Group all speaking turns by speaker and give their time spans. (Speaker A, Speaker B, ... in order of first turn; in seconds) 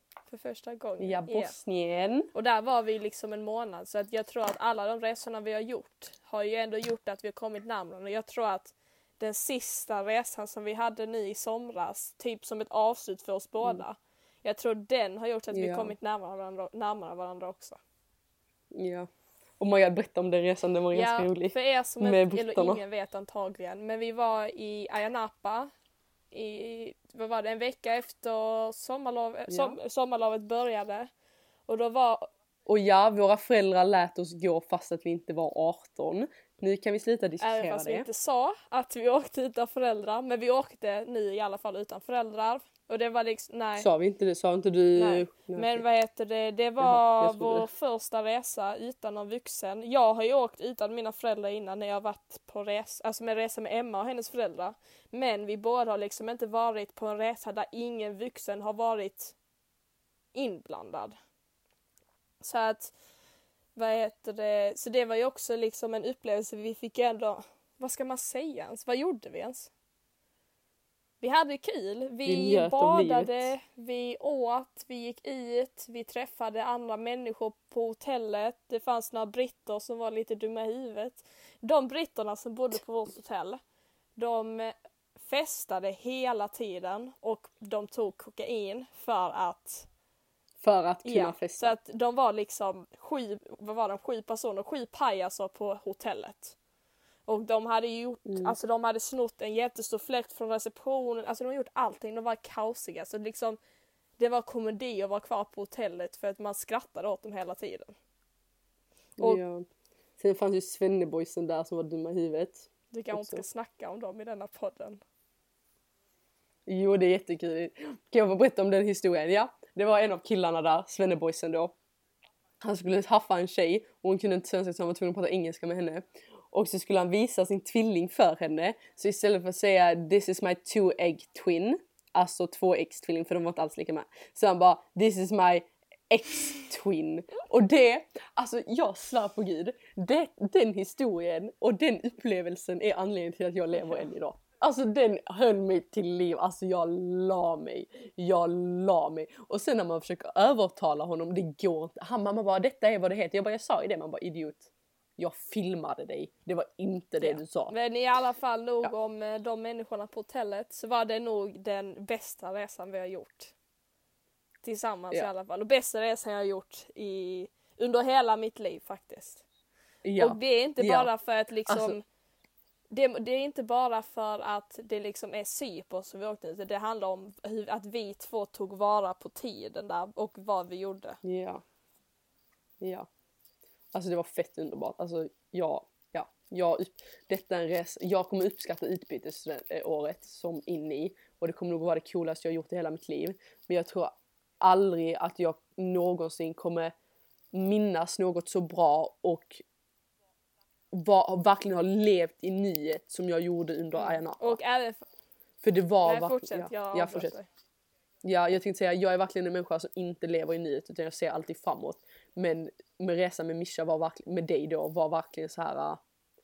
Speaker A: 0.3-1.6, 2.3-17.8, 20.9-25.7, 26.3-31.1, 31.7-32.3, 37.4-43.9, 45.0-59.4, 60.3-61.1, 62.4-62.9, 63.8-69.7, 71.2-83.6, 84.2-89.9, 91.0-96.6, 97.3-103.6, 104.2-108.0, 112.9-115.0, 157.2-163.5, 164.6-169.4, 170.2-172.0, 172.9-181.2, 204.0-205.0, 206.0-207.5
Speaker B: 1.0-2.3, 15.5-15.9, 18.7-19.1, 19.6-22.8, 29.5-29.8, 32.7-38.1, 43.8-45.8, 46.8-47.7, 72.2-73.5, 90.6-91.8, 98.3-98.5, 109.2-109.7, 110.2-113.4, 116.7-121.7, 122.6-157.7, 170.0-171.1, 171.7-172.0, 181.2-181.6, 182.8-183.1, 183.9-196.9, 197.5-199.6, 200.9-204.6, 205.6-207.3, 208.2-216.0